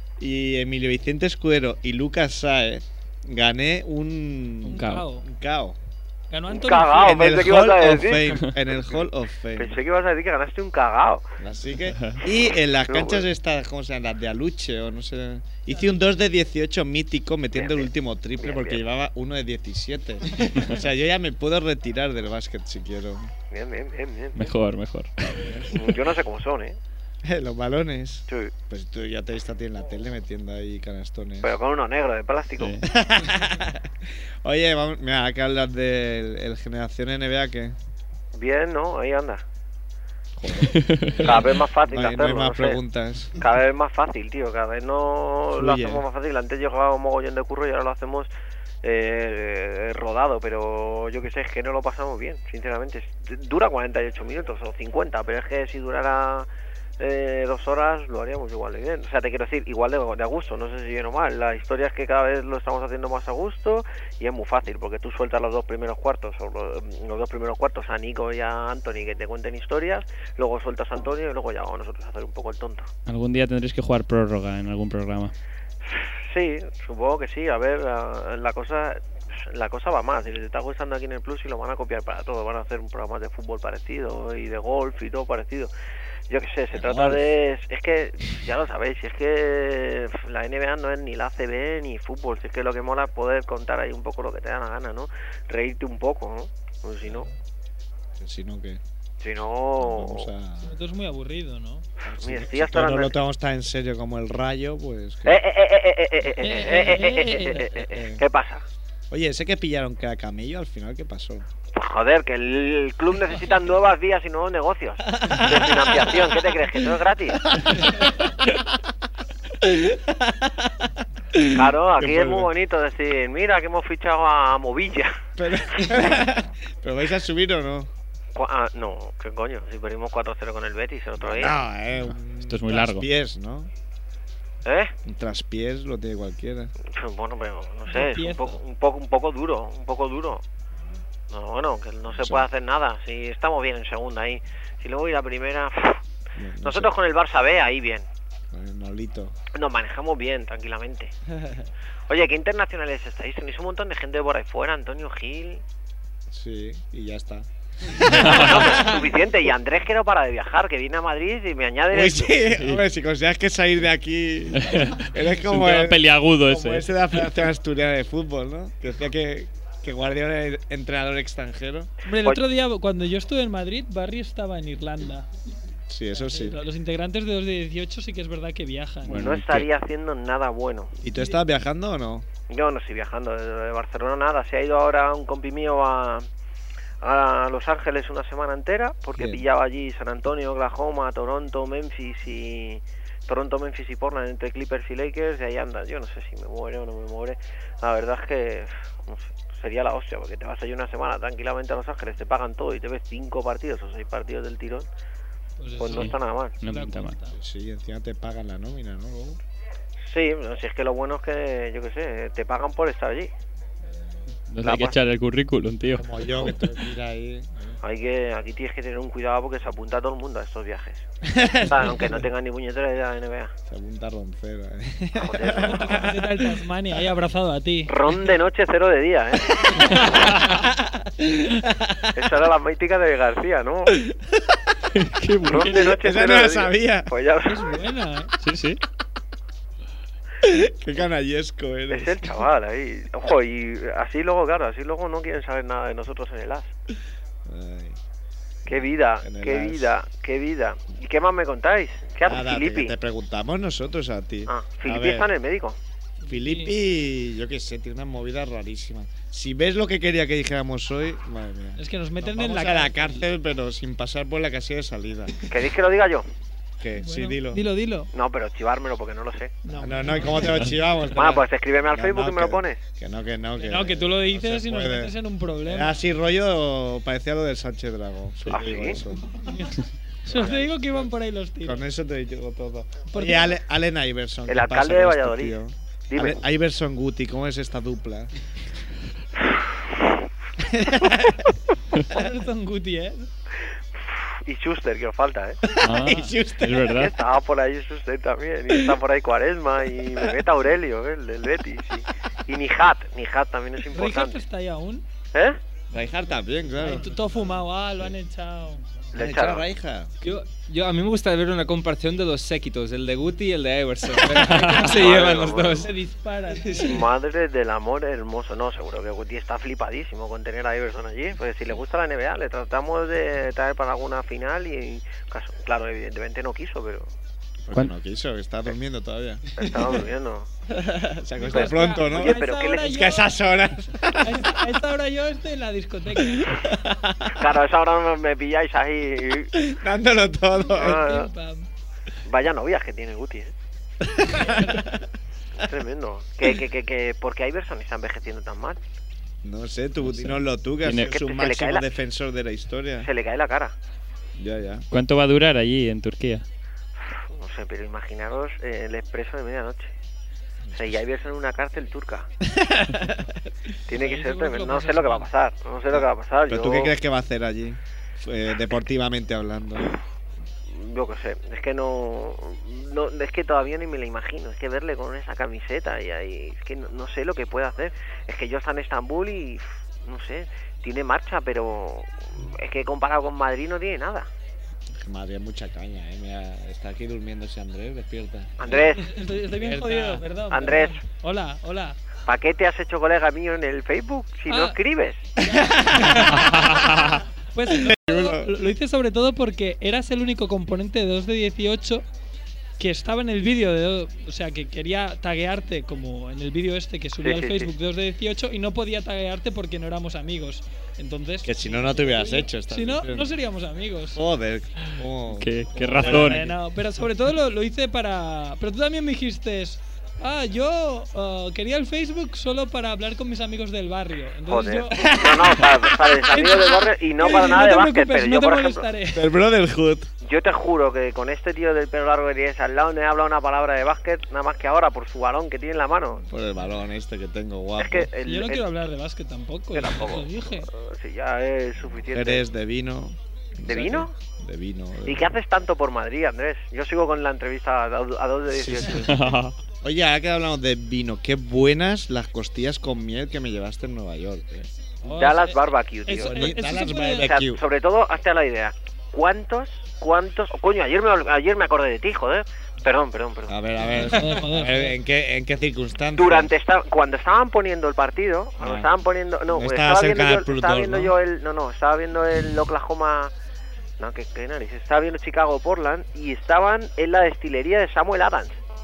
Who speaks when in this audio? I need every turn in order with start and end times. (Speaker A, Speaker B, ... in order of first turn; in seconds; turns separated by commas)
Speaker A: 0.2-5.8, Speaker B: 4.7-5.0, Speaker C: 4.7-5.2, Speaker C: 6.3-7.4, Speaker D: 6.5-8.2, Speaker A: 7.0-9.8, Speaker D: 9.6-11.2, Speaker A: 11.4-23.3, Speaker D: 12.9-13.2, Speaker D: 17.5-18.8, Speaker D: 23.5-24.5, Speaker B: 24.4-25.6, Speaker A: 25.4-25.7, Speaker D: 25.7-26.8, Speaker A: 27.2-31.5, Speaker D: 31.4-32.8, Speaker B: 32.6-32.8, Speaker A: 32.8-37.8, Speaker D: 38.3-39.4, Speaker A: 40.4-43.4, Speaker B: 40.7-41.4, Speaker D: 41.2-42.8, Speaker D: 43.4-48.3, Speaker A: 45.5-46.0, Speaker D: 48.8-56.5, Speaker D: 57.0-72.9, Speaker B: 73.1-75.3, Speaker D: 75.9-85.7, Speaker D: 86.3-97.3, Speaker A: 86.7-87.2, Speaker A: 98.2-98.8, Speaker D: 99.2-100.3, Speaker A: 99.8-100.7, Speaker C: 100.6-101.8, Speaker A: 102.0-105.4, Speaker D: 102.2-103.1, Speaker D: 105.2-108.6, Speaker C: 106.4-107.7, Speaker A: 107.8-108.2, Speaker A: 109.1-111.5, Speaker D: 111.7-117.5, Speaker A: 115.2-116.8, Speaker A: 117.5-118.5, Speaker A: 119.6-120.7, Speaker A: 121.3-122.5, Speaker D: 121.5-125.9, Speaker A: 125.4-127.9, Speaker D: 128.3-131.6, Speaker A: 131.2-133.7, Speaker B: 132.0-133.1, Speaker D: 134.6-134.9, Speaker A: 135.0-136.7, Speaker D: 136.8-140.4, Speaker C: 137.9-138.6, Speaker D: 141.3-146.0, Speaker A: 142.1-142.5, Speaker A: 146.4-146.9, Speaker D: 146.6-148.1, Speaker A: 148.5-149.3, Speaker D: 149.5-151.1, Speaker A: 151.3-151.7, Speaker D: 152.1-155.6, Speaker A: 156.3-159.1, Speaker B: 158.1-158.6, Speaker D: 158.2-162.4, Speaker A: 161.9-171.9, Speaker B: 164.6-166.9, Speaker C: 172.1-175.4, Speaker A: 175.9-176.6, Speaker C: 176.1-179.3, Speaker B: 179.1-179.7, Speaker D: 179.1-180.9, Speaker A: 181.0-182.2, Speaker D: 182.5-186.3, Speaker D: 187.0-204.9, Speaker A: 189.2-189.4, Speaker C: 205.6-206.1, Speaker D: 205.8-206.6, Speaker B: 205.9-207.1, Speaker C: 206.6-207.3, Speaker A: 207.3-209.4, Speaker D: 210.0-213.3, Speaker B: 214.5-216.6, Speaker D: 214.6-214.9, Speaker A: 215.9-217.8, Speaker D: 217.8-221.0, Speaker A: 221.2-222.2, Speaker D: 221.6-223.5, Speaker A: 223.7-226.5, Speaker D: 225.2-226.1, Speaker C: 225.8-227.9, Speaker D: 227.9-230.2, Speaker A: 230.5-232.1, Speaker D: 232.1-234.0, Speaker B: 234.9-236.0, Speaker D: 235.4-237.8, Speaker A: 235.7-237.1, Speaker C: 237.5-238.3, Speaker B: 238.4-238.8, Speaker A: 240.4-242.3, Speaker D: 241.9-246.7, Speaker A: 247.4-248.0, Speaker A: 248.7-249.9, Speaker D: 248.7-252.9, Speaker A: 252.2-255.3, Speaker D: 254.5-255.8, Speaker A: 256.2-265.4, Speaker C: 256.3-256.7, Speaker C: 261.8-263.2, Speaker D: 265.5-266.3, Speaker A: 266.8-267.6, Speaker C: 267.0-268.1, Speaker D: 268.1-269.5, Speaker C: 269.6-270.7, Speaker A: 269.7-279.4, Speaker D: 271.1-272.8, Speaker C: 273.6-276.0, Speaker D: 278.5-279.0, Speaker C: 279.5-281.8, Speaker A: 280.3-281.1, Speaker A: 281.6-288.3, Speaker C: 283.1-283.5, Speaker D: 284.5-285.6, Speaker D: 286.1-286.4, Speaker D: 289.5-290.1, Speaker A: 290.6-291.6, Speaker C: 292.1-293.3, Speaker D: 294.0-295.6, Speaker A: 295.6-296.9, Speaker B: 295.8-297.1, Speaker D: 296.9-304.4, Speaker A: 298.7-299.0, Speaker A: 300.0-300.4, Speaker C: 303.9-305.0, Speaker D: 305.3-305.6, Speaker A: 305.9-307.1, Speaker C: 306.8-309.0, Speaker D: 309.1-309.6, Speaker A: 309.1-310.1, Speaker E: 310.2-315.9, Speaker B: 314.4-314.9, Speaker D: 314.9-315.8, Speaker C: 315.8-317.1, Speaker D: 316.8-327.1, Speaker A: 327.6-330.0, Speaker D: 329.6-330.5, Speaker A: 330.7-334.6, Speaker C: 331.4-333.3, Speaker D: 331.5-332.9, Speaker C: 334.2-336.5, Speaker A: 336.3-337.3, Speaker D: 337.3-339.5, Speaker A: 339.5-341.1, Speaker D: 340.7-341.3, Speaker C: 340.8-341.7, Speaker D: 342.3-343.5, Speaker A: 344.1-345.0, Speaker D: 345.6-348.8, Speaker A: 349.4-353.1, Speaker B: 350.1-350.3, Speaker B: 350.8-351.1, Speaker D: 351.0-351.9, Speaker D: 353.0-353.7, Speaker A: 354.4-354.9, Speaker B: 354.9-356.4, Speaker D: 357.1-359.9, Speaker A: 360.6-360.9, Speaker D: 360.7-362.3, Speaker A: 362.5-363.4, Speaker D: 363.9-366.9, Speaker C: 363.9-365.3, Speaker A: 366.5-369.9, Speaker D: 370.7-384.3, Speaker A: 384.9-388.9, Speaker D: 388.6-389.1, Speaker C: 389.0-392.0, Speaker A: 389.7-390.1, Speaker D: 390.5-391.0, Speaker D: 392.2-395.3, Speaker C: 394.5-394.8, Speaker A: 395.4-396.5, Speaker C: 395.5-396.4, Speaker B: 396.3-397.2, Speaker C: 397.5-402.0, Speaker A: 397.7-398.6, Speaker C: 402.8-414.2, Speaker D: 407.2-407.7, Speaker A: 411.4-413.3, Speaker A: 414.1-416.6, Speaker B: 415.3-416.4, Speaker C: 416.0-425.5, Speaker D: 424.5-428.9, Speaker A: 424.9-425.7, Speaker C: 426.2-429.2, Speaker A: 429.1-430.1, Speaker D: 430.2-436.2, Speaker A: 436.3-438.1, Speaker D: 437.8-438.6, Speaker C: 438.2-440.7, Speaker D: 439.7-442.4, Speaker A: 442.1-445.3, Speaker D: 443.7-444.1, Speaker D: 445.0-449.0, Speaker A: 448.5-449.2, Speaker B: 449.1-449.5, Speaker A: 449.8-454.7, Speaker C: 455.0-457.3, Speaker D: 455.1-456.6, Speaker A: 456.3-457.6, Speaker D: 457.2-463.5, Speaker A: 463.5-466.5, Speaker C: 464.0-464.9, Speaker D: 466.1-473.3, Speaker A: 468.6-468.9, Speaker A: 469.5-471.1, Speaker D: 474.0-478.6